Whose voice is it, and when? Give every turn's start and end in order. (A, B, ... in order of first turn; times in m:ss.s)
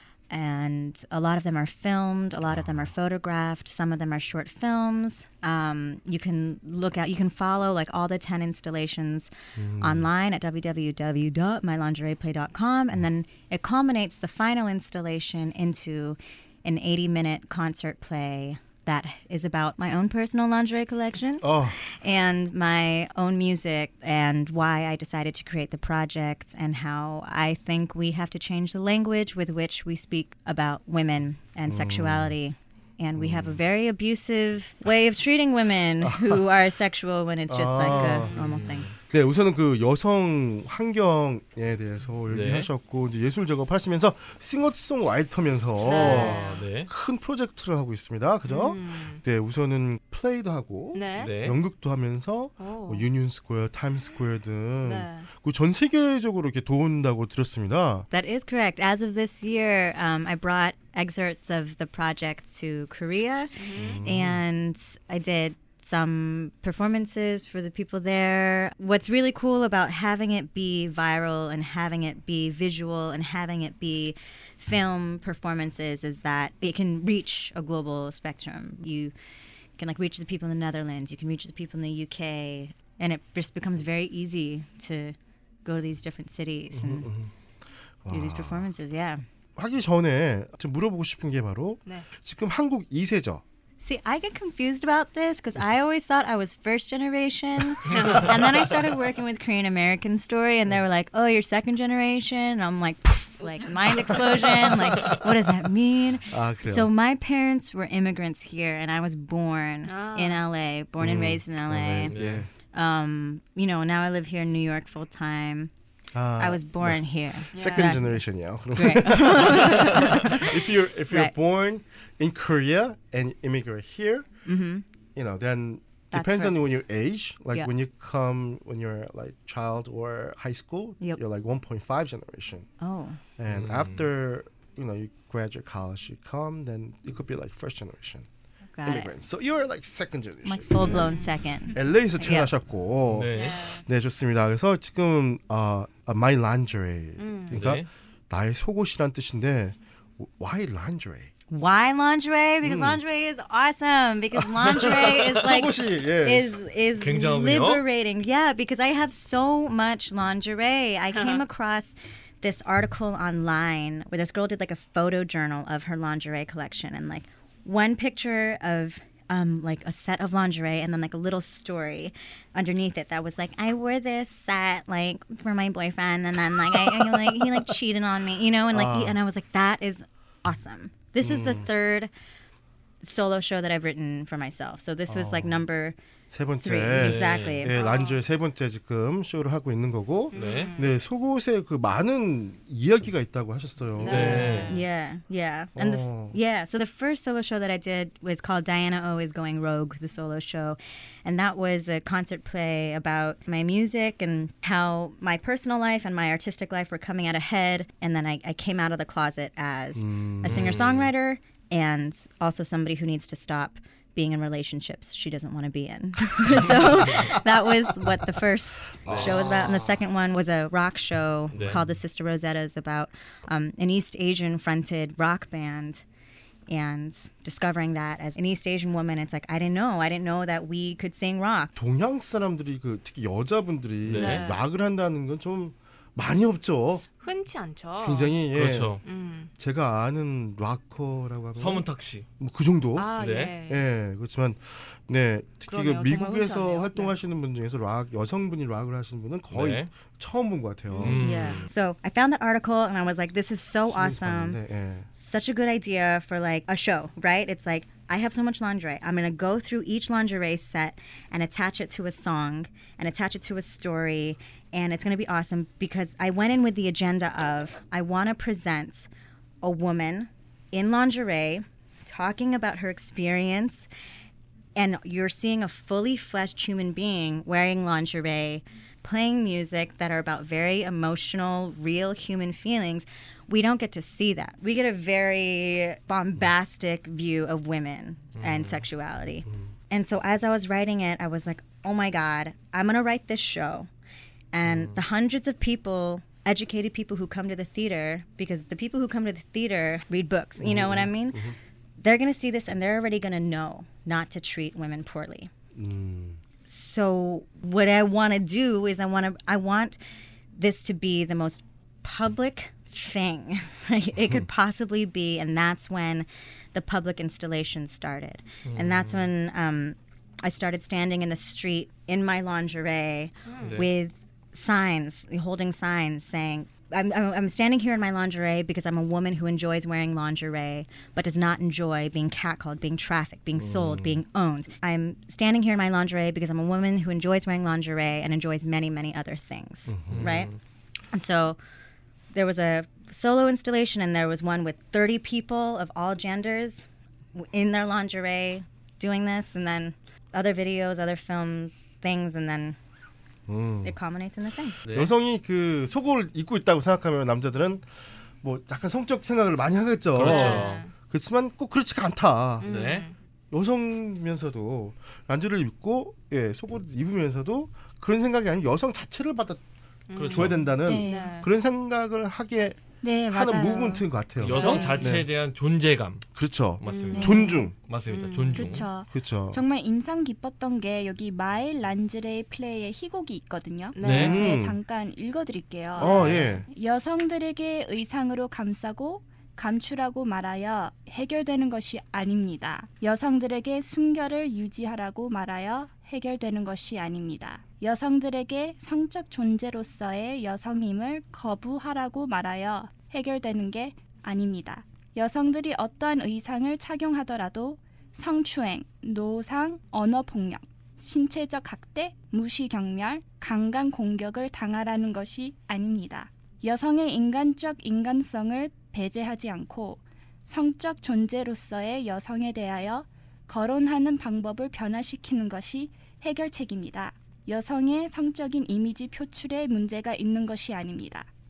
0:00.3-0:38.9 A
0:02.5-0:02.9 B
0:09.6-0:10.1 B
0:21.4-0:21.8 B
0:31.7-0:32.4 B
0:33.1-0:33.6 B
0:36.0-0:36.4 B
0:37.5-0:58.1 B
0:37.9-0:38.9 C
0:42.3-0:42.7 C
0:45.8-0:46.6 D
0:45.9-0:46.9 C
0:48.5-0:49.2 D
0:50.9-0:51.3 D
0:51.2-0:51.6 C
0:52.6-0:53.0 D
0:54.8-0:55.3 D
0:58.1-1:19.1 A
1:03.6-1:04.0 D
1:03.8-1:04.4 B
1:19.8-1:27.1 A
1:26.7-1:27.3 B
1:28.0-1:28.6 B
1:28.1-1:29.2 A
1:29.6-1:33.4 B
1:33.8-1:52.1 A
1:37.9-1:38.3 D
1:46.3-1:46.9 B
1:49.8-1:50.4 D
1:51.0-1:52.5 B
1:52.1-1:52.5 C
1:52.7-1:55.7 A
1:56.1-2:04.2 B
1:56.4-1:58.2 A
1:57.5-1:58.0 D
1:58.7-2:01.3 A
2:04.4-2:04.8 A
2:05.1-2:12.7 B
2:06.1-2:06.6 A
2:12.8-2:13.2 A
2:13.4-2:18.3 B
2:13.5-2:14.0 C
2:18.7-2:19.1 A
2:18.8-2:31.3 B
2:20.4-2:22.5 A
2:20.8-2:21.3 D
2:23.1-2:23.7 C
2:23.3-2:23.8 D
2:27.2-2:27.7 D
2:27.5-2:27.9 C
2:31.5-3:02.1 A
2:32.6-2:33.0 B
2:34.6-2:36.5 B
2:37.0-2:37.8 C
2:58.7-2:59.2 B
3:01.2-3:01.7 B
3:03.0-3:06.0 A
3:05.1-3:05.6 B
3:06.3-3:14.7 B
3:06.5-3:07.8 A
3:07.0-3:07.6 C
3:07.7-3:08.2 D
3:10.3-3:10.9 D
3:10.3-3:10.7 C
3:14.0-3:14.8 D
3:14.0-3:14.8 C
3:14.7-3:46.0 A
3:15.8-3:16.4 B
3:29.9-3:30.9 B
3:30.4-3:31.1 C
3:36.6-3:37.4 B
3:39.0-3:39.9 B
3:39.1-3:39.7 C
3:41.5-3:41.8 C
3:46.7-3:51.7 A
3:51.8-3:57.0 B
3:54.0-3:54.6 C
3:54.2-3:54.6 D
3:57.2-3:58.4 D
3:58.0-3:59.0 B
3:58.5-3:59.0 C
3:59.0-3:59.5 D
3:59.6-4:01.8 B
4:01.5-4:02.2 C
4:02.4-4:11.7 B
4:03.0-4:03.8 D
4:03.2-4:03.5 C
4:05.7-4:07.1 D
4:09.5-4:09.9 C
4:10.9-4:11.2 D
4:11.0-4:11.7 C
4:11.2-4:14.6 A
4:13.9-4:15.1 B
4:15.1-4:29.1 A
4:29.6-4:33.9 A
4:34.8-4:53.9 A
4:48.4-4:48.8 C
4:54.5-5:01.5 A
4:54.6-4:55.0 C
5:00.6-5:01.6 B
5:02.0-5:05.5 A
5:05.7-5:06.4 B
5:06.6-5:10.0 A
5:10.5-5:40.5 A
5:18.6-5:19.3 C
5:23.4-5:23.8 D
5:23.6-5:23.9 C
5:33.6-5:34.2 B
5:39.9-5:40.4 B
5:40.1-5:40.6 C
5:41.1-5:41.6 A
5:42.3-5:52.8 A
5:53.5-5:54.0 B
5:53.8-5:54.8 A
5:54.8-5:55.1 C
5:54.9-5:57.9 B
5:58.4-6:02.8 B
6:00.2-6:00.8 C
6:00.2-6:00.9 D
6:02.6-6:03.1 D
6:02.6-6:03.1 C
6:03.5-6:09.6 B
6:10.1-6:11.5 D
6:10.1-6:10.6 C
6:10.2-6:15.3 B
6:10.8-6:11.4 E
6:13.0-6:14.0 E
6:14.4-6:16.3 C
6:14.5-6:15.2 D
6:14.6-6:15.0 E
6:16.3-6:17.7 B
6:16.8-6:18.9 C
6:16.8-6:18.9 D
6:17.1-6:17.7 E
6:18.5-7:11.3 E
6:19.1-6:19.6 B
6:23.9-6:24.5 D
6:24.0-6:24.4 C
6:24.1-6:24.8 B
6:25.9-6:26.6 D
6:26.0-6:26.6 B
6:26.1-6:26.4 C